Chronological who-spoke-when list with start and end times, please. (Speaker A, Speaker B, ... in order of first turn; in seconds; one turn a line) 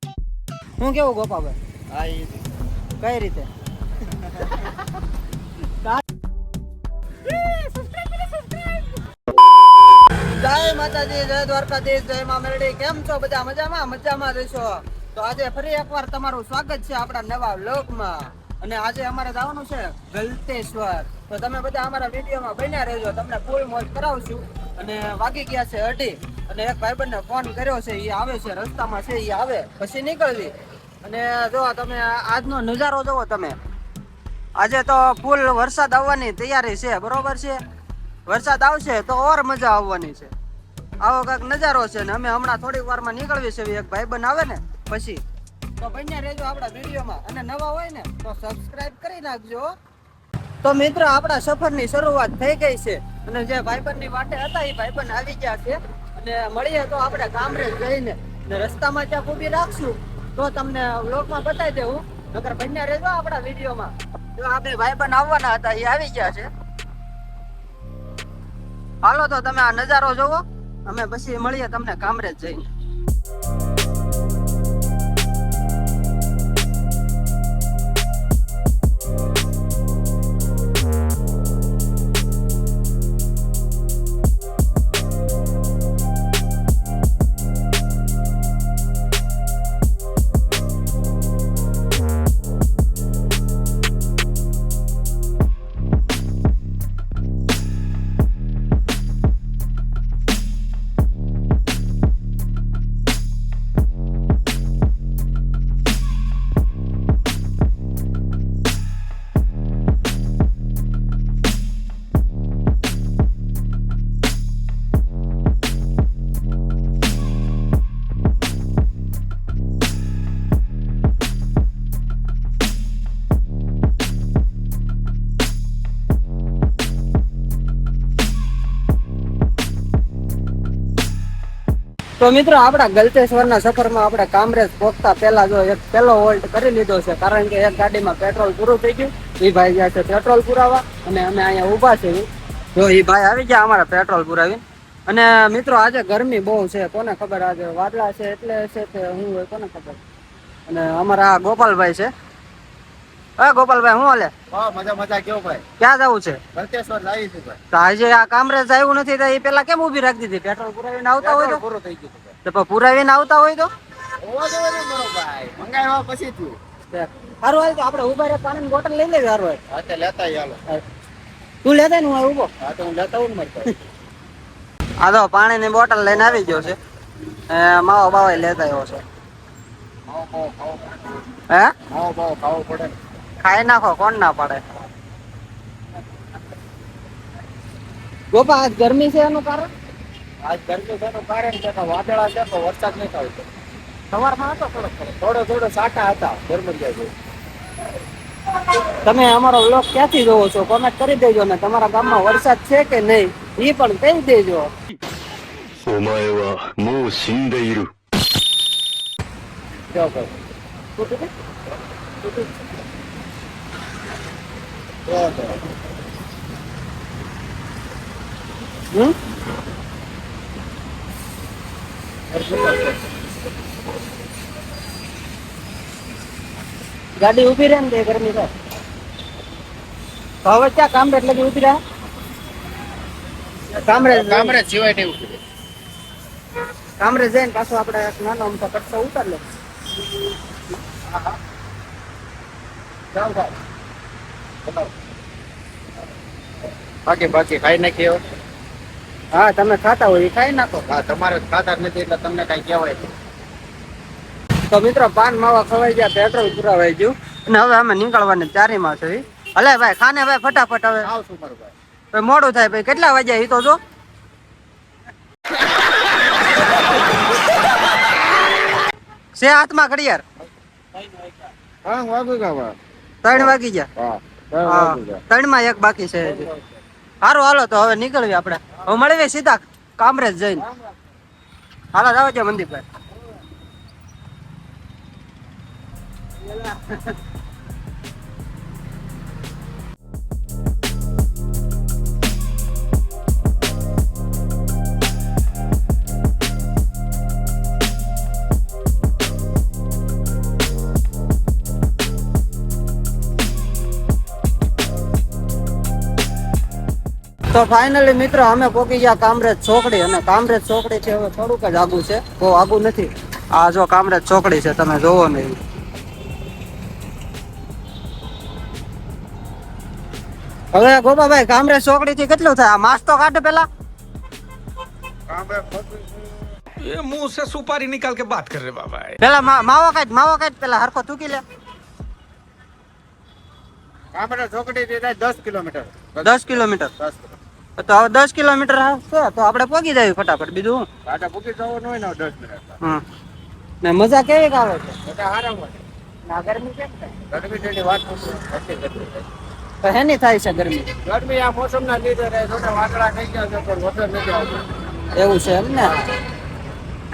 Speaker A: 0.8-1.6
Speaker B: 1.9-2.4
Speaker A: 3.0-3.5
Speaker A: 10.3-30.5
Speaker A: 31.0-33.5
Speaker A: 34.6-37.6
Speaker A: 38.3-40.3
Speaker A: 41.0-45.2
Speaker A: 45.8-49.7
Speaker A: 50.6-66.5
Speaker A: 69.0-72.7
Speaker A: 132.2-150.0
Speaker A: 150.7-152.1
Speaker A: 153.4-154.3
Speaker B: 154.5-155.6
Speaker A: 155.8-156.4
Speaker B: 156.5-157.6
Speaker A: 157.7-161.6
Speaker B: 161.2-162.3
Speaker A: 162.4-163.7
Speaker B: 164.2-166.6
Speaker A: 166.9-169.6
Speaker B: 169.7-170.6
Speaker A: 171.6-172.5
Speaker B: 172.6-173.7
Speaker A: 175.0-176.8
Speaker B: 176.1-176.6
Speaker A: 177.5-179.0
Speaker B: 180.1-181.2
Speaker B: 181.9-182.9
Speaker A: 183.4-184.6
Speaker A: 188.3-189.7
Speaker B: 190.4-193.5
Speaker A: 194.1-194.9
Speaker B: 194.8-197.1
Speaker A: 199.0-204.7
Speaker C: 205.8-207.9
Speaker B: 209.9-210.3
Speaker A: 211.0-211.3
Speaker B: 215.1-215.6
Speaker B: 222.3-223.1
Speaker A: 227.2-228.5
Speaker A: 230.4-231.8
Speaker B: 233.6-235.4
Speaker A: 233.9-234.6
Speaker A: 237.0-239.4
Speaker B: 241.0-241.4
Speaker B: 243.1-243.6
Speaker B: 244.6-244.9
Speaker B: 247.1-248.2
Speaker A: 249.3-250.8
Speaker B: 250.9-253.1
Speaker A: 254.7-261.1
Speaker B: 261.0-261.7
Speaker A: 262.1-263.8
Speaker A: 269.4-270.2
Speaker B: 270.9-272.8
Speaker A: 273.2-273.9
Speaker B: 273.3-275.2
Speaker A: 274.6-276.5
Speaker B: 276.2-276.8
Speaker A: 277.2-280.6
Speaker A: 281.9-282.8
Speaker A: 307.5-315.6
Speaker A: 320.7-323.7
Speaker B: 325.3-326.5
Speaker D: 326.8-329.2
Speaker A: 329.2-331.4
Speaker B: 334.1-337.3
Speaker A: 336.2-336.9
Speaker A: 337.8-340.9
Speaker B: 341.0-342.8
Speaker A: 343.8-345.0
Speaker B: 345.0-345.8
Speaker A: 346.3-347.1
Speaker B: 347.3-349.2
Speaker A: 349.8-350.9
Speaker B: 351.0-354.6
Speaker A: 355.1-355.9